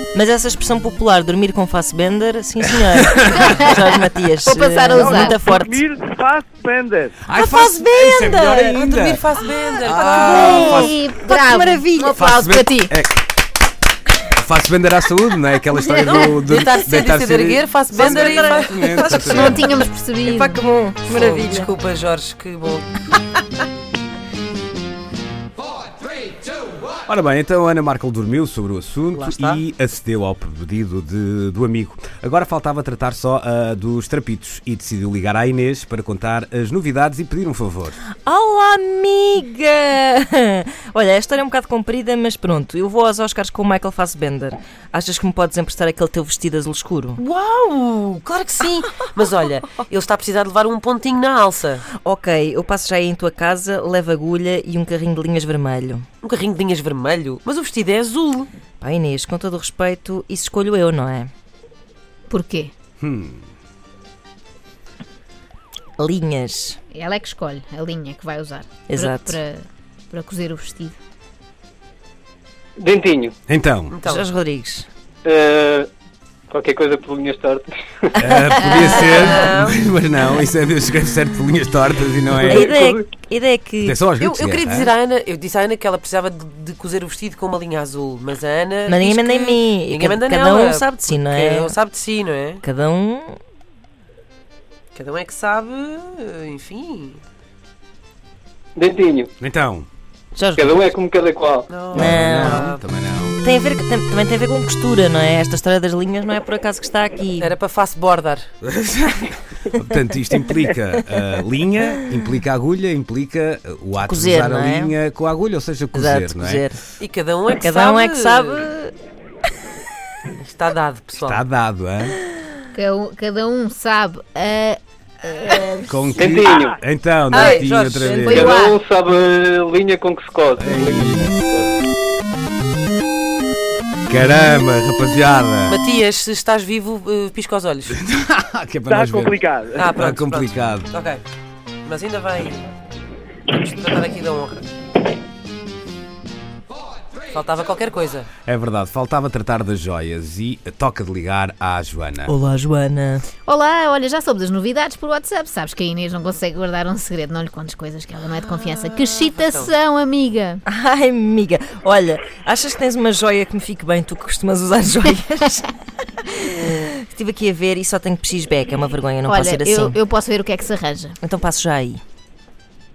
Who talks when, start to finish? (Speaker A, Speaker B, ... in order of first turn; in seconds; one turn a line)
Speaker A: 0.1-5.8
Speaker B: 3.4-3.8
Speaker B: 4.4-5.4
Speaker C: 5.0-7.2
Speaker D: 7.2-9.2
Speaker A: 7.3-8.6
Speaker E: 8.5-10.8
Speaker D: 9.8-11.0
Speaker A: 10.2-12.1
Speaker B: 10.4-12.9
Speaker D: 12.1-13.2
Speaker D: 14.3-19.7
Speaker E: 15.8-19.7
Speaker A: 17.9-18.9
Speaker B: 19.2-20.6
Speaker E: 20.2-20.5
Speaker A: 20.4-21.7
Speaker E: 21.0-22.9
Speaker D: 27.1-38.0
Speaker E: 29.1-29.6
Speaker A: 38.2-47.2
Speaker E: 47.2-51.9
Speaker A: 51.9-56.0
Speaker E: 56.2-58.5
Speaker A: 58.8-61.3
Speaker B: 62.3-62.7
Speaker D: 63.0-63.4
Speaker A: 66.0-66.8
Speaker B: 66.9-71.0
Speaker A: 68.9-69.4
Speaker F: 72.8-73.3
Speaker D: 73.5-73.9
Speaker E: 73.9-74.2
Speaker A: 74.1-74.9
Speaker F: 75.2-75.9
Speaker F: 76.5-78.1
Speaker D: 78.2-82.7
Speaker B: 78.6-79.0
Speaker E: 78.9-79.8
Speaker F: 82.5-83.0
Speaker A: 82.5-84.0
Speaker D: 83.8-84.9
Speaker E: 84.2-92.6
Speaker A: 88.9-91.8
Speaker A: 92.6-93.3
Speaker E: 94.9-97.2
Speaker F: 98.8-99.3
Speaker D: 99.4-99.9
Speaker A: 100.3-100.7
Speaker F: 100.5-101.7
Speaker E: 101.7-102.8
Speaker D: 101.9-103.4
Speaker A: 102.0-102.7
Speaker A: 103.4-107.5
Speaker E: 107.4-108.5
Speaker D: 108.6-116.6
Speaker A: 114.0-114.9
Speaker A: 115.9-116.8
Speaker E: 117.0-118.7
Speaker A: 117.6-118.9
Speaker E: 120.4-121.4
Speaker D: 121.2-122.2
Speaker B: 122.7-126.1
Speaker D: 125.8-128.5
Speaker F: 126.2-126.8
Speaker A: 127.3-128.2
Speaker E: 127.4-128.2
Speaker B: 128.2-128.8
Speaker F: 128.3-131.7
Speaker D: 130.6-131.4
Speaker D: 134.1-135.8
Speaker E: 135.7-138.0
Speaker D: 137.9-139.4
Speaker C: 138.9-139.9
Speaker E: 139.8-141.2
Speaker D: 139.9-140.9
Speaker E: 141.8-142.7
Speaker E: 143.5-144.7
Speaker E: 147.3-148.3
Speaker D: 148.4-152.3
Speaker A: 152.3-153.2
Speaker B: 153.4-160.6
Speaker E: 158.4-159.7
Speaker A: 160.7-165.7
Speaker A: 166.5-170.0
Speaker B: 169.2-171.2
Speaker A: 171.2-172.0